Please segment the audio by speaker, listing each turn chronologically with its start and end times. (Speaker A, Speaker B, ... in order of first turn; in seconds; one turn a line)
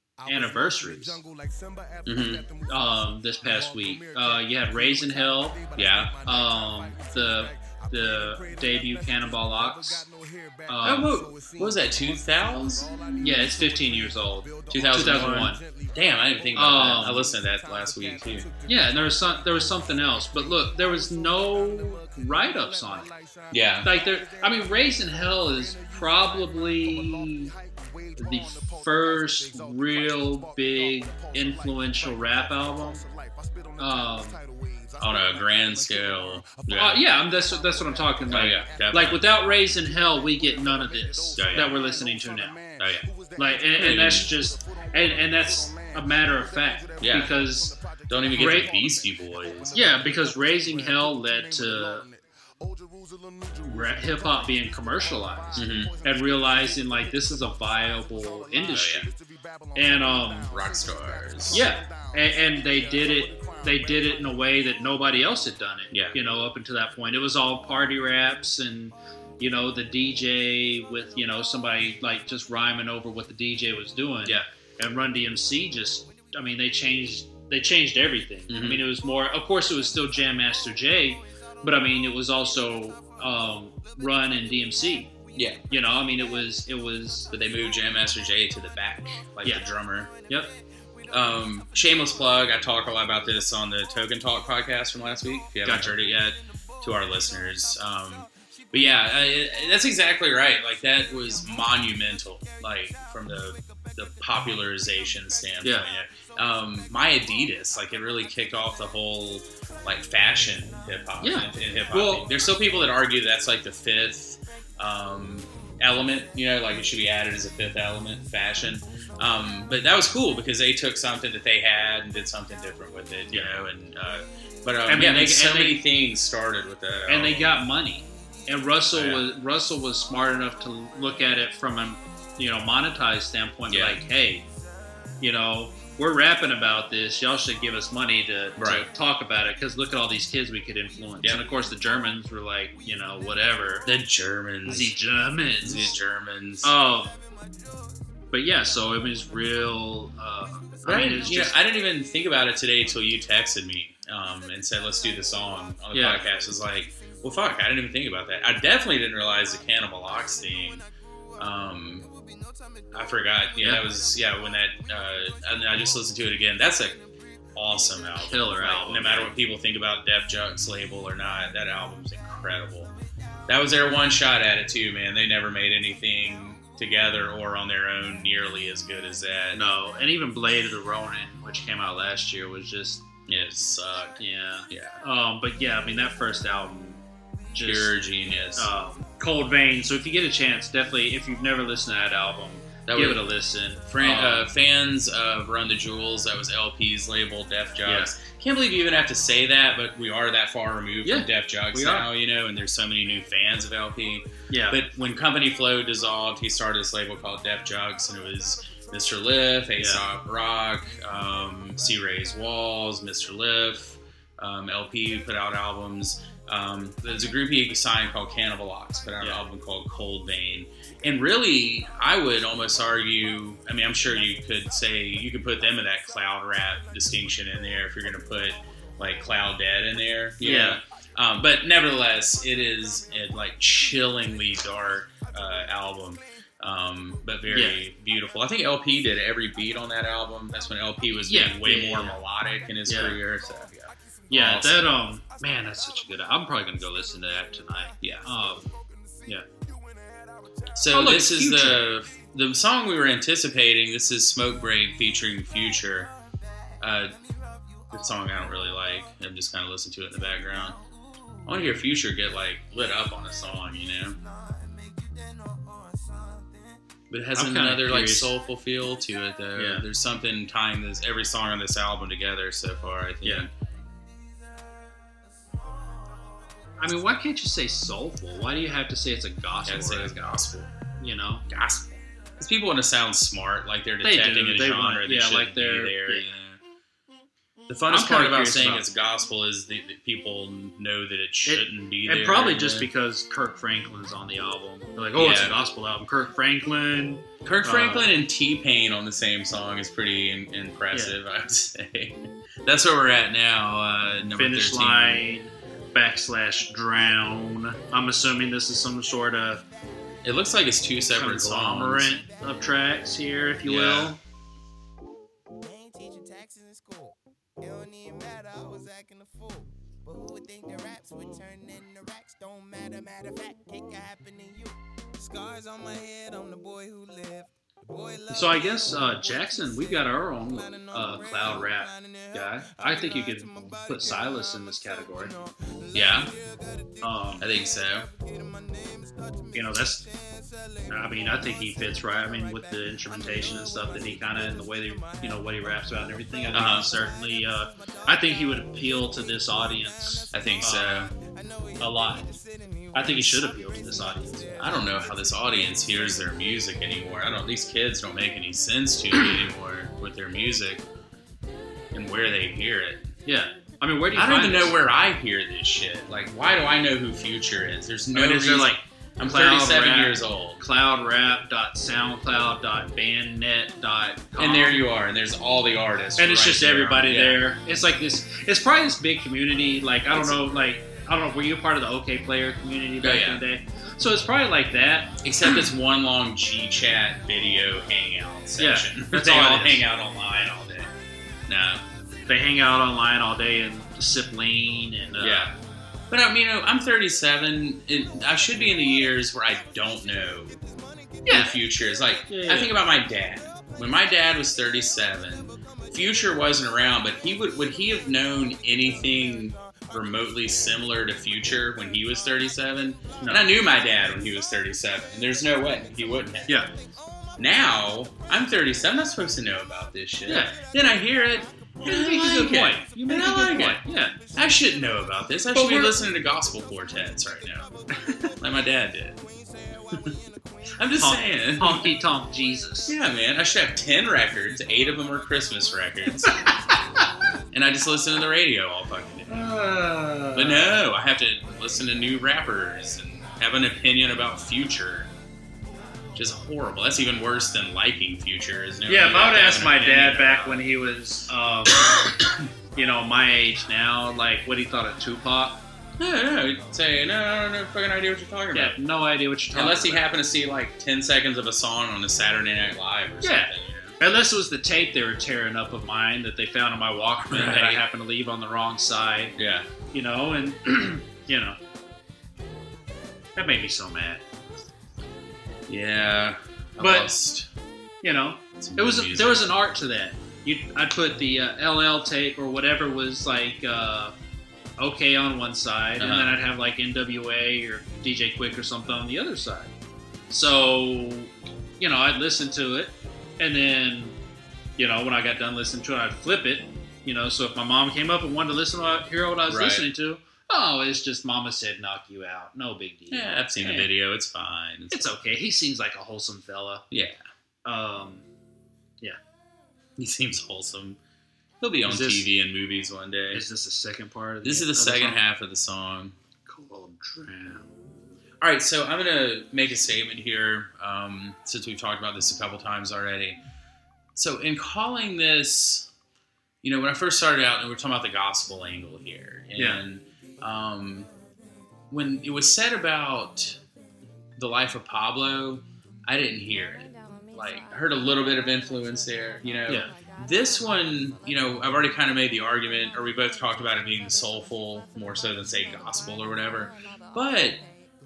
Speaker A: 0.2-49.1
Speaker B: 0.3-1.2
Speaker C: 2.0-2.4
Speaker B: 2.7-5.6
Speaker C: 5.8-6.1
Speaker B: 6.2-10.1
Speaker B: 10.7-11.1
Speaker C: 10.8-13.4
Speaker B: 13.2-15.6
Speaker C: 14.7-18.5
Speaker B: 16.5-17.3
Speaker B: 18.7-23.1
Speaker C: 23.5-23.9
Speaker B: 23.8-27.5
Speaker B: 28.2-33.0
Speaker B: 33.8-34.4
Speaker C: 35.0-37.0
Speaker B: 36.8-42.6
Speaker C: 38.3-39.2
Speaker C: 41.4-41.8
Speaker C: 42.8-43.1
Speaker B: 43.4-47.8
Speaker C: 43.8-44.3
Speaker C: 47.0-47.4
Speaker C: 48.1-50.0
Speaker B: 48.3-48.8
Speaker A: 49.7-64.5
Speaker B: 49.7-52.0
Speaker B: 53.6-59.1
Speaker C: 55.6-55.9
Speaker C: 58.7-59.1
Speaker B: 59.8-60.5
Speaker C: 60.5-61.6
Speaker B: 61.5-85.1
Speaker C: 65.9-66.2
Speaker C: 78.5-78.9
Speaker C: 85.3-85.6
Speaker B: 85.7-87.3
Speaker C: 87.3-90.1
Speaker B: 90.3-90.5
Speaker C: 91.1-127.6
Speaker B: 95.6-96.0
Speaker B: 111.2-112.3
Speaker B: 124.9-125.8
Speaker B: 127.1-134.4
Speaker C: 128.9-129.2
Speaker C: 133.7-134.0
Speaker B: 135.2-143.9
Speaker C: 138.6-138.9
Speaker C: 143.8-144.9
Speaker B: 144.7-146.0
Speaker C: 145.6-146.8
Speaker B: 146.6-147.2
Speaker B: 148.3-151.6
Speaker C: 150.9-160.8
Speaker B: 155.9-156.3
Speaker C: 161.4-162.1
Speaker A: 162.0-163.1
Speaker C: 162.9-167.0
Speaker B: 163.6-163.9
Speaker C: 167.6-172.9
Speaker B: 168.2-169.3
Speaker C: 173.5-179.6
Speaker B: 179.5-183.0
Speaker C: 183.3-185.0
Speaker B: 184.2-187.9
Speaker C: 187.6-188.7
Speaker B: 188.6-194.5
Speaker C: 192.9-193.2
Speaker C: 193.9-244.9
Speaker B: 197.8-198.1
Speaker B: 201.0-202.1
Speaker B: 204.5-204.8
Speaker B: 209.8-210.0
Speaker B: 230.4-230.8
Speaker B: 237.5-237.8
Speaker B: 241.3-242.2
Speaker B: 242.9-243.2
Speaker B: 244.3-248.7
Speaker C: 248.0-248.3
Speaker A: 248.8-250.4
Speaker C: 250.7-256.1
Speaker B: 250.9-251.9
Speaker C: 256.8-257.1
Speaker A: 257.4-257.9
Speaker C: 257.9-260.8
Speaker C: 261.5-264.2
Speaker A: 264.2-266.8
Speaker C: 267.1-273.5
Speaker B: 267.4-268.3
Speaker B: 269.6-269.9
Speaker B: 276.8-280.3
Speaker C: 279.6-280.7
Speaker B: 281.0-281.5
Speaker C: 281.5-286.6
Speaker B: 284.0-286.3
Speaker C: 287.7-292.9
Speaker B: 287.9-288.9
Speaker B: 291.5-298.1
Speaker C: 295.2-295.6
Speaker C: 297.4-305.2
Speaker B: 300.9-301.2
Speaker B: 304.4-309.6
Speaker C: 310.2-312.2
Speaker B: 311.1-314.2
Speaker C: 313.7-314.1
Speaker A: 315.6-337.3
Speaker B: 328.3-335.3
Speaker C: 335.9-336.3
Speaker B: 337.0-337.5
Speaker C: 337.4-338.1
Speaker A: 338.1-345.5
Speaker B: 339.5-340.1
Speaker B: 340.9-351.1
Speaker C: 346.5-346.9
Speaker A: 346.8-349.2
Speaker C: 350.3-351.1
Speaker A: 351.1-355.2
Speaker B: 351.8-352.3
Speaker B: 352.9-354.5
Speaker C: 353.1-353.4
Speaker C: 354.6-360.8
Speaker C: 361.9-363.1
Speaker B: 363.3-364.8
Speaker C: 364.1-370.6
Speaker B: 368.1-374.8
Speaker C: 374.4-377.4
Speaker B: 376.2-385.6
Speaker C: 380.1-380.4
Speaker C: 383.0-383.4
Speaker C: 385.2-390.9
Speaker B: 388.6-389.9
Speaker C: 391.5-391.8
Speaker B: 392.3-395.5
Speaker C: 395.2-395.6
Speaker C: 396.1-400.6
Speaker A: 400.6-401.3
Speaker B: 401.2-401.5
Speaker C: 401.3-416.6
Speaker B: 402.3-402.8
Speaker B: 413.2-413.5
Speaker C: 417.4-423.8
Speaker B: 420.3-420.6
Speaker B: 421.8-424.2
Speaker C: 424.4-427.7
Speaker B: 425.5-426.0
Speaker B: 428.0-428.3
Speaker C: 428.4-429.2
Speaker A: 429.4-430.3
Speaker C: 430.8-432.0
Speaker B: 431.0-433.0
Speaker C: 432.9-436.5
Speaker B: 436.3-436.5
Speaker C: 437.5-439.5
Speaker B: 439.3-440.8
Speaker C: 440.3-445.1
Speaker C: 446.1-450.7
Speaker B: 448.9-452.1
Speaker B: 452.8-455.6
Speaker C: 456.0-458.8
Speaker B: 458.5-460.1
Speaker C: 459.5-464.0
Speaker B: 463.2-469.4
Speaker C: 467.3-467.8
Speaker C: 469.4-469.7
Speaker B: 469.9-471.6
Speaker B: 473.4-474.2
Speaker C: 475.7-477.5
Speaker B: 476.8-477.1
Speaker B: 478.0-484.1
Speaker C: 478.6-479.5
Speaker B: 484.8-489.7
Speaker C: 486.0-486.4
Speaker B: 490.3-494.2
Speaker B: 494.8-503.9
Speaker C: 499.5-499.9
Speaker C: 503.1-505.1
Speaker B: 504.9-506.9
Speaker C: 506.9-507.2
Speaker B: 507.6-508.3
Speaker C: 510.0-511.0
Speaker C: 511.6-513.4
Speaker B: 511.9-512.3
Speaker B: 513.3-515.2
Speaker C: 514.4-516.1
Speaker B: 516.5-517.7
Speaker C: 518.4-523.4
Speaker C: 524.1-525.9
Speaker C: 526.6-531.1
Speaker C: 531.9-533.6
Speaker C: 534.4-547.6
Speaker B: 539.7-539.9